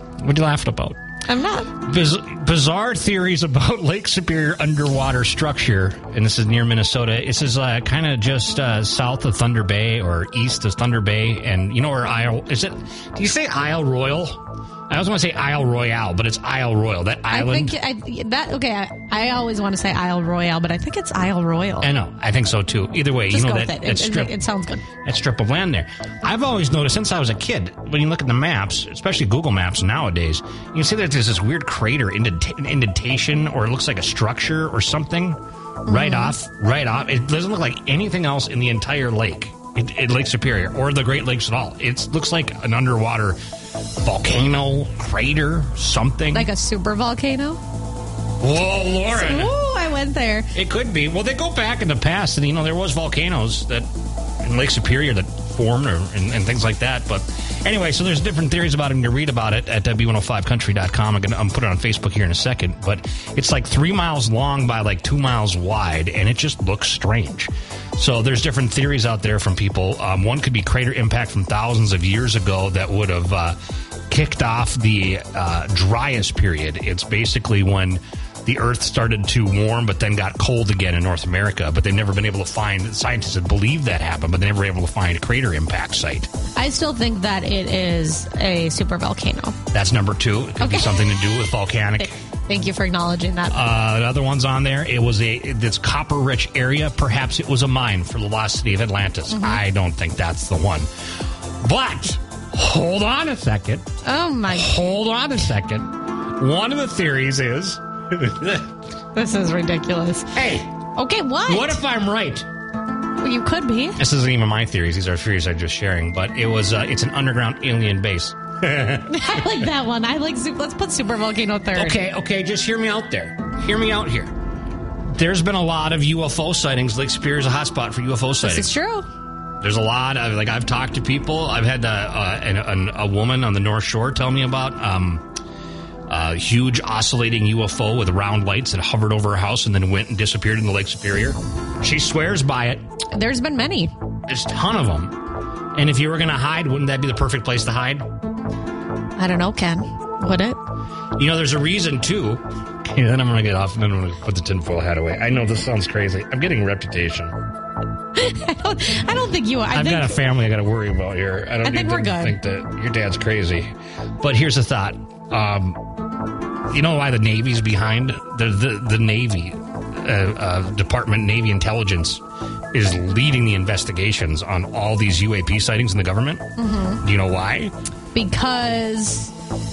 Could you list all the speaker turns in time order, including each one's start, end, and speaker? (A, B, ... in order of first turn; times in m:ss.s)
0:00.2-0:01.0 A
0:01.2-0:01.8 B
0:01.8-0:17.7 A
0:17.3-0:21.9 B
0:21.8-0:24.3 A
0:23.3-0:24.8 B
0:25.0-0:43.4 A
0:35.8-0:36.4 B
0:44.0-0:46.5 A
0:46.3-0:47.6 B
0:48.4-0:49.5 A
0:49.1-0:50.5 B
0:50.5-0:53.9 A
0:54.4-1:13.6 A
1:14.1-1:26.3 A
1:26.5-1:29.6 B
1:29.7-1:32.1 A
1:30.6-1:31.2 B
1:32.0-1:33.6 B
1:33.5-1:40.9 A
1:39.3-1:39.6 B
1:41.6-1:43.9 A
1:44.0-1:44.8 B
1:44.5-1:48.7 A
1:49.1-1:50.3 B
1:50.3-1:50.7 A
1:50.9-1:51.8 B
1:51.4-1:52.5 A
1:53.2-1:54.0 B
1:54.0-1:59.6 A
1:59.1-2:02.0 B
2:01.7-2:04.3 A
2:05.1-2:08.7 A
2:08.4-2:09.1 B
2:09.6-2:15.2 A
2:16.1-2:22.8 A
2:23.1-2:23.9 B
2:24.3-2:25.1 A
2:25.7-2:28.1 A
2:29.2-2:30.6 B
2:31.2-2:37.4 A
2:38.1-2:40.2 B
2:39.7-2:45.8 A
2:41.6-2:42.4 B
2:46.7-2:56.5 A
2:56.6-2:57.0 B
2:57.0-2:57.7 A
2:58.1-2:59.3 B